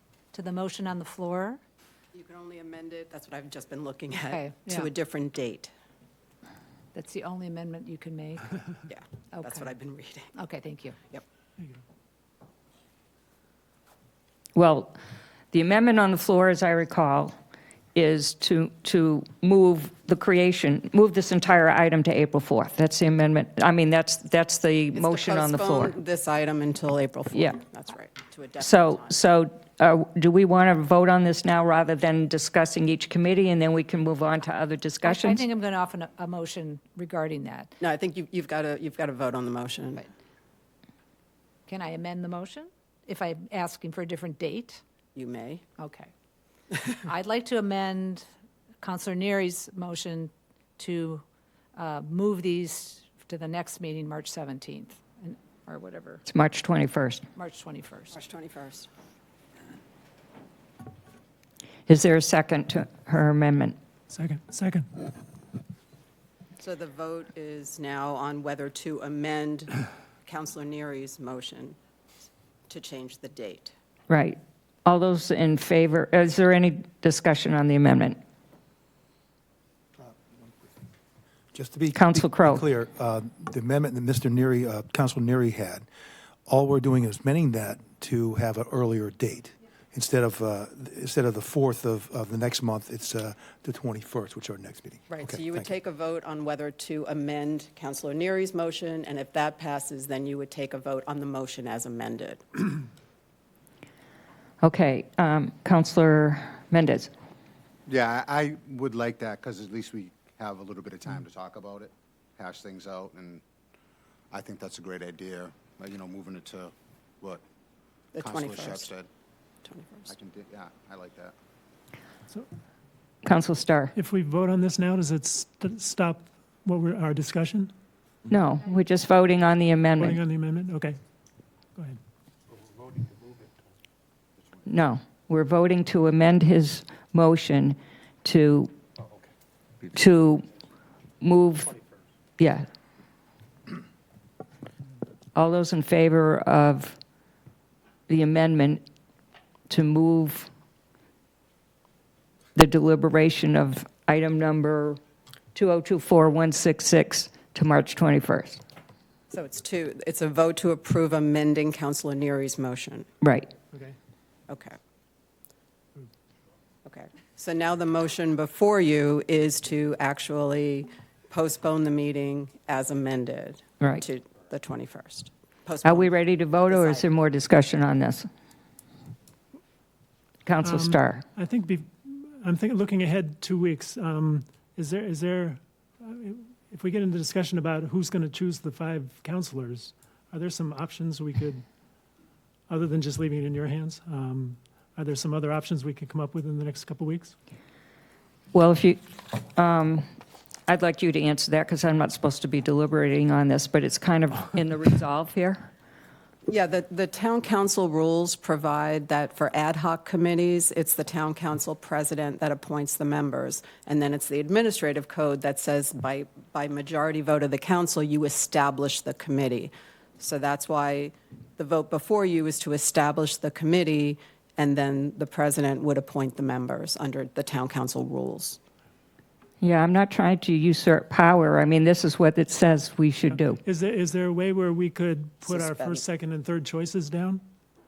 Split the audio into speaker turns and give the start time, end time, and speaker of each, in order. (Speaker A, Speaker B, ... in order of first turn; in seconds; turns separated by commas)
Speaker A: 0.3-1.6, Speaker B: 2.1-5.7, Speaker A: 4.2-4.6, Speaker A: 6.9-8.6, Speaker B: 8.9-10.3, Speaker A: 9.3-9.7, Speaker A: 10.3-11.0, Speaker C: 14.5-15.0, Speaker C: 15.5-17.3, Speaker C: 17.9-25.9, Speaker B: 24.9-29.2, Speaker C: 27.3-27.6, Speaker C: 28.6-35.4, Speaker A: 35.0-37.8, Speaker B: 37.8-40.1, Speaker A: 41.7-44.8, Speaker B: 45.1-45.6, Speaker A: 45.8-46.1, Speaker A: 46.9-48.3, Speaker A: 48.8-51.2, Speaker A: 51.8-56.2, Speaker C: 56.2-57.2, Speaker A: 57.4-58.2, Speaker B: 58.1-58.9, Speaker C: 61.9-63.8, Speaker D: 64.1-65.0, Speaker B: 66.6-71.8, Speaker B: 72.7-73.7, Speaker C: 74.1-78.2, Speaker E: 80.1-80.7, Speaker E: 81.5-85.8, Speaker C: 81.9-82.6, Speaker E: 86.5-95.7, Speaker B: 95.1-102.6, Speaker C: 104.6-107.1, Speaker F: 107.9-113.4, Speaker F: 114.3-117.4, Speaker B: 118.1-118.9, Speaker F: 118.2-119.1, Speaker B: 119.6-120.1, Speaker F: 120.1-121.3, Speaker C: 123.2-123.9, Speaker D: 123.9-127.7, Speaker C: 128.3-130.2, Speaker D: 130.0-131.0, Speaker C: 134.7-138.7, Speaker C: 139.9-140.4, Speaker C: 141.2-141.7, Speaker C: 142.4-142.7, Speaker C: 145.3-147.0, Speaker C: 148.1-148.8, Speaker C: 149.7-150.5, Speaker C: 152.5-155.0, Speaker C: 155.5-158.6, Speaker B: 159.3-163.1, Speaker C: 163.2-163.5, Speaker B: 164.5-164.8, Speaker B: 166.8-176.1, Speaker C: 175.8-178.3, Speaker B: 176.7-177.1, Speaker C: 180.4-181.2, Speaker D: 180.6-191.6, Speaker D: 192.7-197.3, Speaker C: 198.5-200.1, Speaker C: 200.7-205.7, Speaker B: 206.5-228.6, Speaker C: 229.6-233.6, Speaker D: 233.3-237.4, Speaker B: 235.4-236.0